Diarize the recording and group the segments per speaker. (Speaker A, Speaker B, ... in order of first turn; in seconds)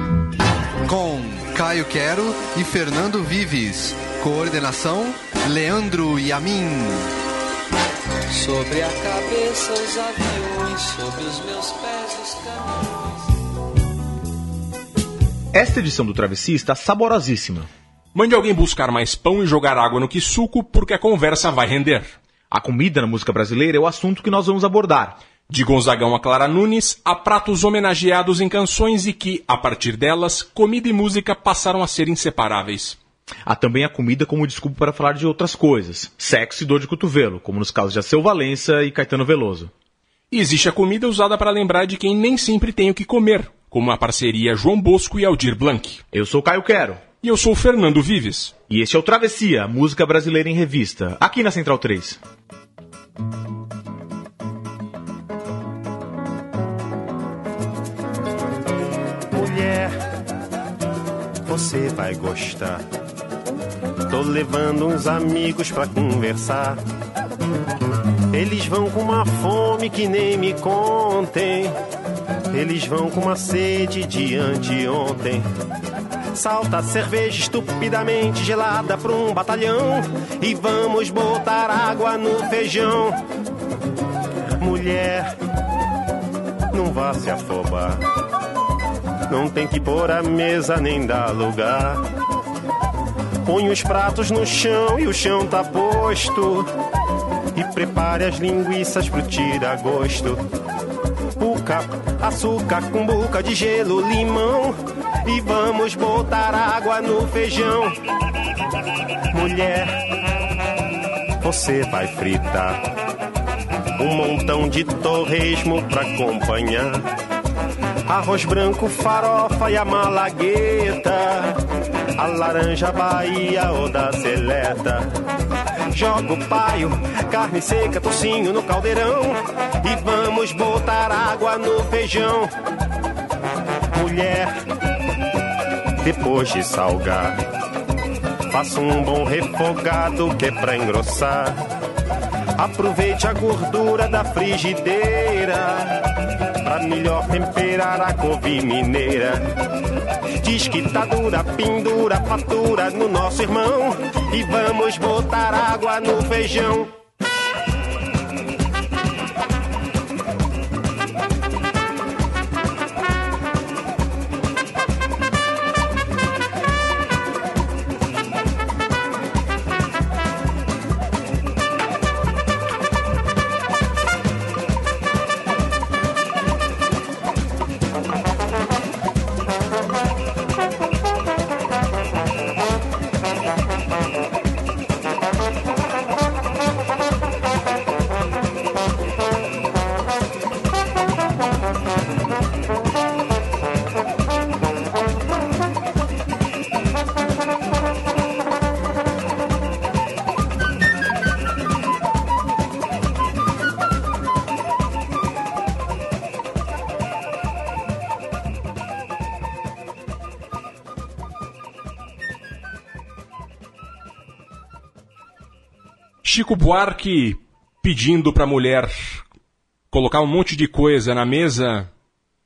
Speaker A: 0.8-7.1
Speaker B: 8.3-12.9
Speaker C: 15.5-17.7, 22.5-25.2, 33.5-39.7, 46.1-47.0, 48.7-52.2
Speaker D: 18.1-22.1, 25.5-33.0, 40.3-46.0, 47.2-48.5, 216.2-219.2, 219.9-221.9
Speaker E: 59.3-60.0, 61.5-62.8, 64.1-66.8, 68.3-71.8, 72.5-75.5, 76.3-83.2, 84.6-85.3, 86.7-88.0, 89.3-92.0, 93.5-96.7, 97.5-100.4, 101.4-108.0, 109.3-110.0, 111.4-112.9, 114.0-117.0, 118.1-121.6, 122.2-125.2, 125.9-132.5, 133.9-134.5, 136.0-137.4, 138.5-141.7, 142.6-146.1, 146.6-149.5, 150.4-156.9